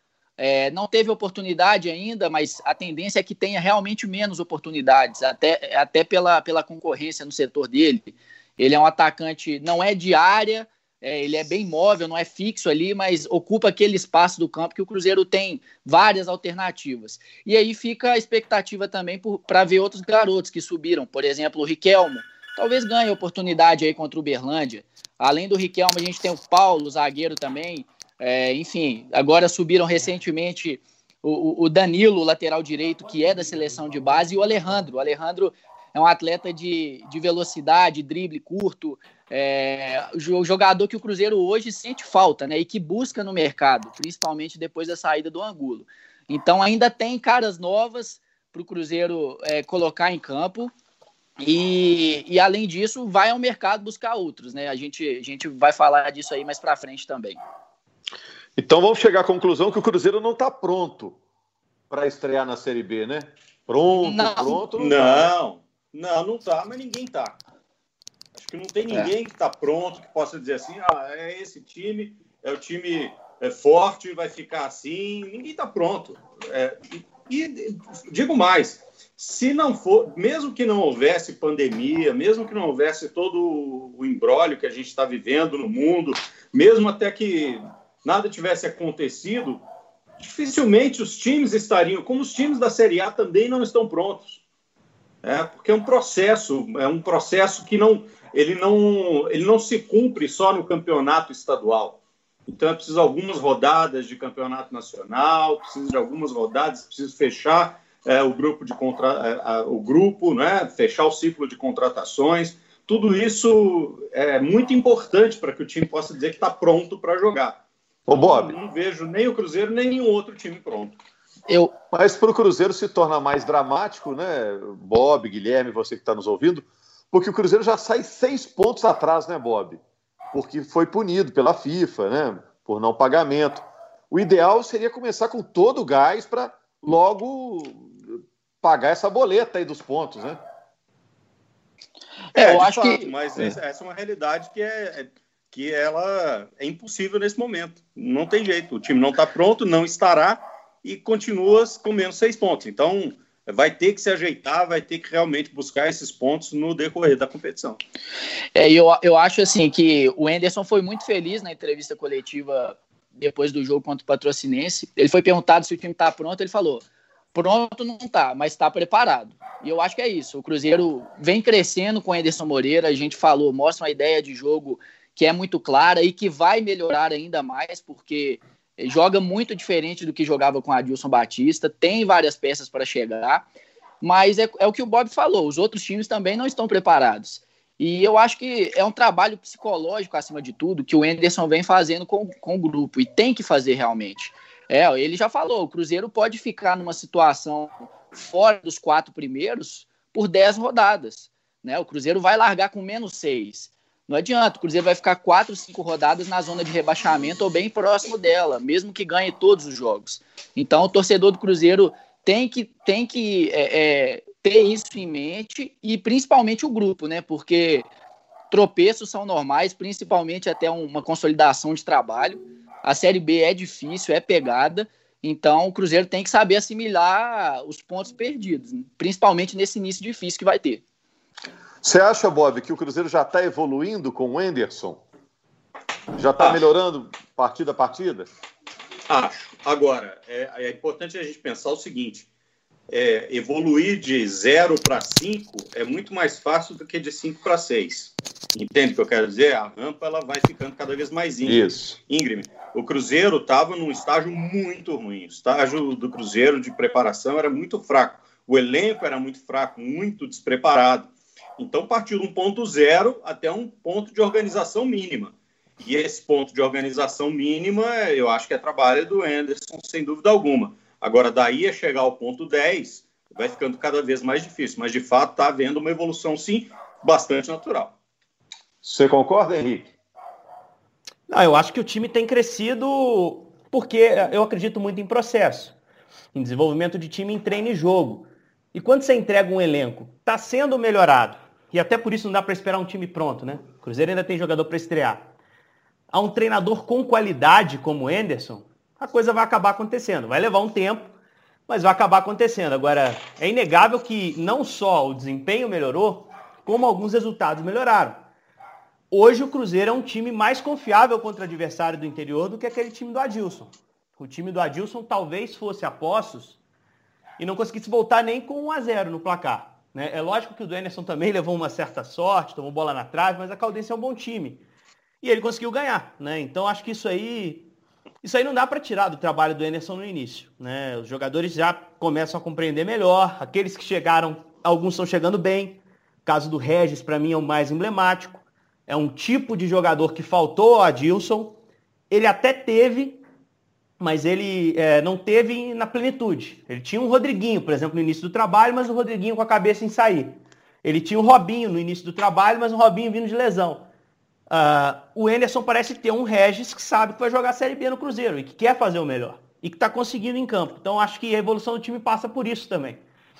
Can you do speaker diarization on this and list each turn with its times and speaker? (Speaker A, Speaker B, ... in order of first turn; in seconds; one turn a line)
Speaker A: 0.4-50.7
Speaker A: 51.4-57.4
Speaker B: 58.6-61.1
Speaker B: 61.9-65.3
Speaker A: 64.0-64.6
Speaker C: 64.8-67.4
Speaker C: 68.4-89.6
Speaker C: 90.2-94.4
Speaker C: 95.2-117.6
Speaker B: 118.1-118.5
Speaker C: 118.1-121.0
Speaker A: 121.5-121.7
Speaker B: 121.9-129.8
Speaker B: 130.3-140.4
Speaker A: 142.3-143.1
Speaker C: 142.3-157.8
Speaker A: 158.5-183.4
Speaker A: 184.0-217.9
Speaker A: 218.5-230.8
Speaker B: 231.8-235.0
Speaker B: 236.2-238.3
Speaker C: 239.1-242.3
Speaker C: 242.9-277.9
Speaker B: 251.4-252.0
Speaker B: 278.8-279.9
Speaker D: 281.3-285.8
Speaker D: 286.3-295.3
Speaker D: 296.1-301.1
Speaker D: 301.7-308.3
Speaker D: 309.1-316.6
Speaker D: 317.4-324.6
Speaker D: 325.2-327.7
Speaker D: 328.2-341.6
Speaker D: 342.1-343.2
Speaker D: 344.0-353.9
Speaker D: 354.5-363.0